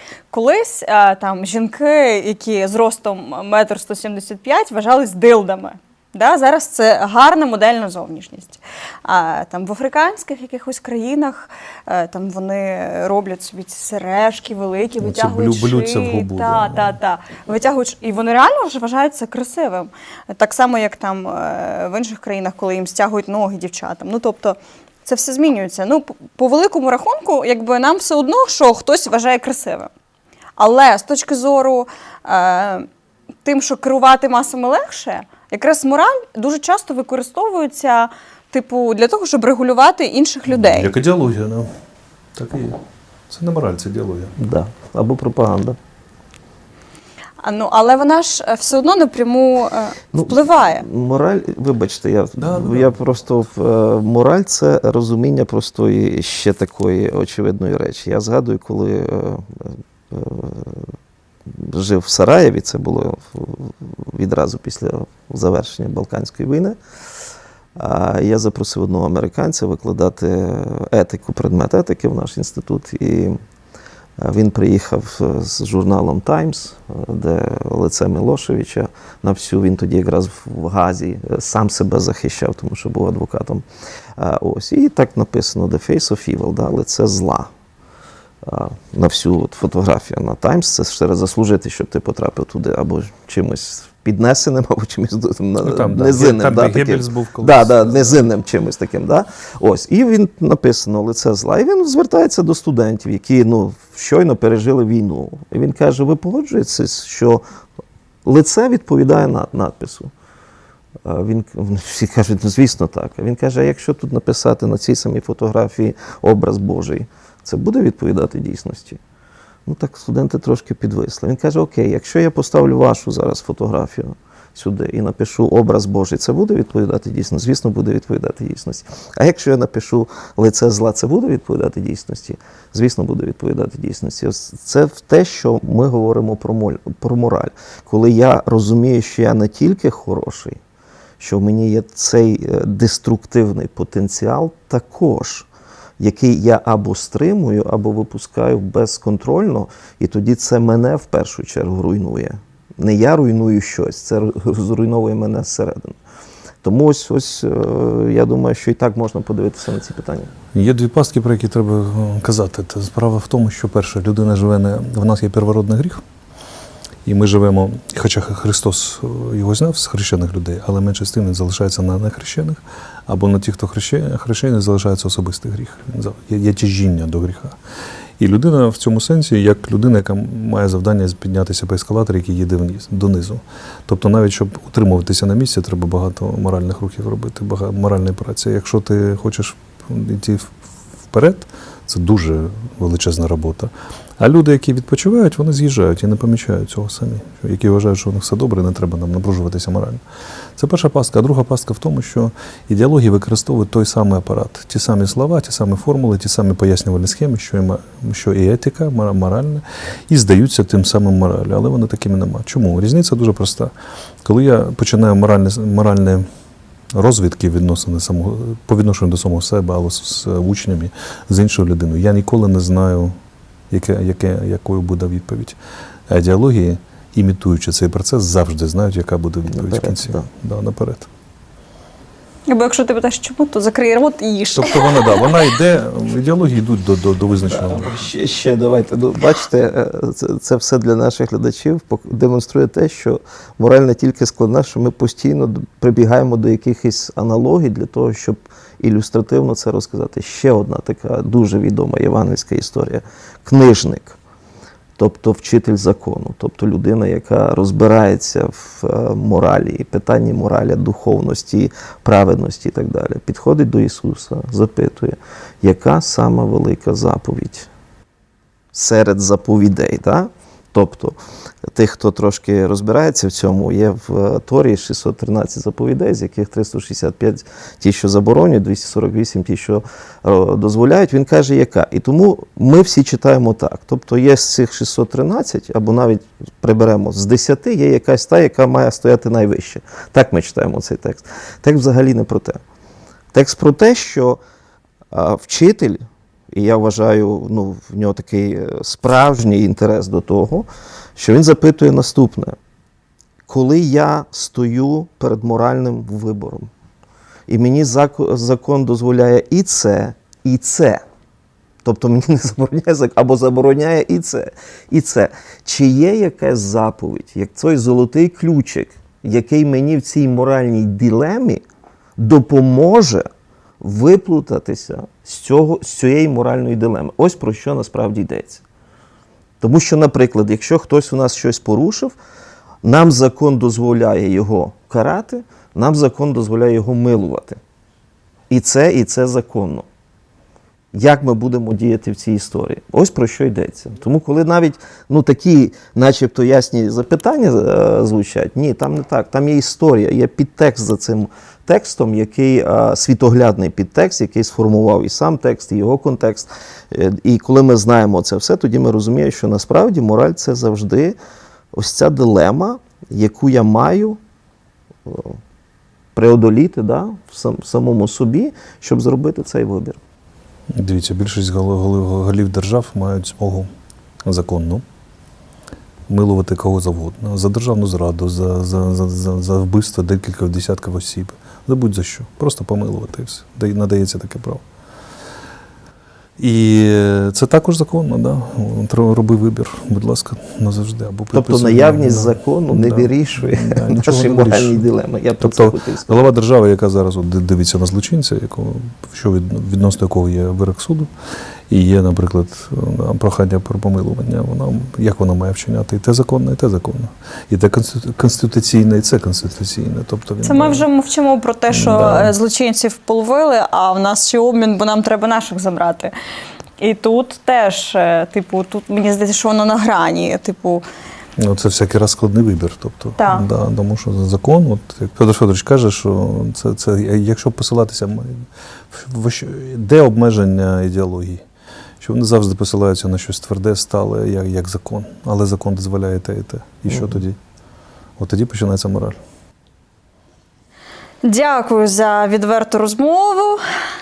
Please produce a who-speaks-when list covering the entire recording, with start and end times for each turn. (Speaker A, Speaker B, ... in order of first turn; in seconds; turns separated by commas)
Speaker A: 0.3-29.9, Speaker B: 15.0-17.0, Speaker A: 30.6-32.9, Speaker A: 33.4-40.9, Speaker B: 40.5-41.7, Speaker B: 42.3-42.8, Speaker B: 43.3-44.3, Speaker C: 44.4-45.8, Speaker A: 47.4-50.9, Speaker C: 50.1-60.9, Speaker B: 52.4-53.0, Speaker C: 61.5-66.8, Speaker C: 67.8-73.4, Speaker C: 74.2-83.6, Speaker C: 84.2-87.5, Speaker C: 88.4-107.4, Speaker B: 95.6-98.2, Speaker C: 108.2-110.1, Speaker C: 111.0-119.0, Speaker C: 119.7-140.6, Speaker C: 141.2-145.5, Speaker C: 146.0-156.0, Speaker C: 156.6-160.3, Speaker B: 160.5-166.0, Speaker B: 167.0-177.6, Speaker B: 178.2-190.6, Speaker B: 191.1-200.0, Speaker B: 200.6-213.7, Speaker B: 214.2-216.2, Speaker B: 216.9-223.1, Speaker B: 223.7-225.6, Speaker B: 226.1-231.1, Speaker C: 229.5-230.3, Speaker A: 232.5-235.3, Speaker B: 234.5-238.0, Speaker C: 237.5-254.2, Speaker C: 255.0-267.7, Speaker C: 268.7-271.2, Speaker C: 271.7-292.6, Speaker C: 293.3-294.4, Speaker C: 295.1-302.6, Speaker C: 303.5-306.7, Speaker C: 307.5-311.0, Speaker C: 311.8-321.6, Speaker C: 322.2-323.3, Speaker C: 323.8-328.6, Speaker C: 329.6-332.1, Speaker C: 332.8-337.6, Speaker C: 338.5-339.9, Speaker C: 340.9-361.2, Speaker C: 361.7-364.2, Speaker C: 365.1-365.4, Speaker C: 366.1-370.0, Speaker B: 370.7-373.7, Speaker B: 374.2-374.8, Speaker B: 376.1-384.6, Speaker B: 386.4-394.8, Speaker C: 391.3-396.3, Speaker B: 395.4-401.1, Speaker B: 401.7-410.9, Speaker A: 410.4-416.1, Speaker B: 411.7-412.3, Speaker A: 416.8-420.8, Speaker B: 421.4-431.4, Speaker A: 423.2-423.5, Speaker B: 432.0-437.4, Speaker C: 436.9-437.1, Speaker B: 438.2-439.2, Speaker A: 441.2-443.6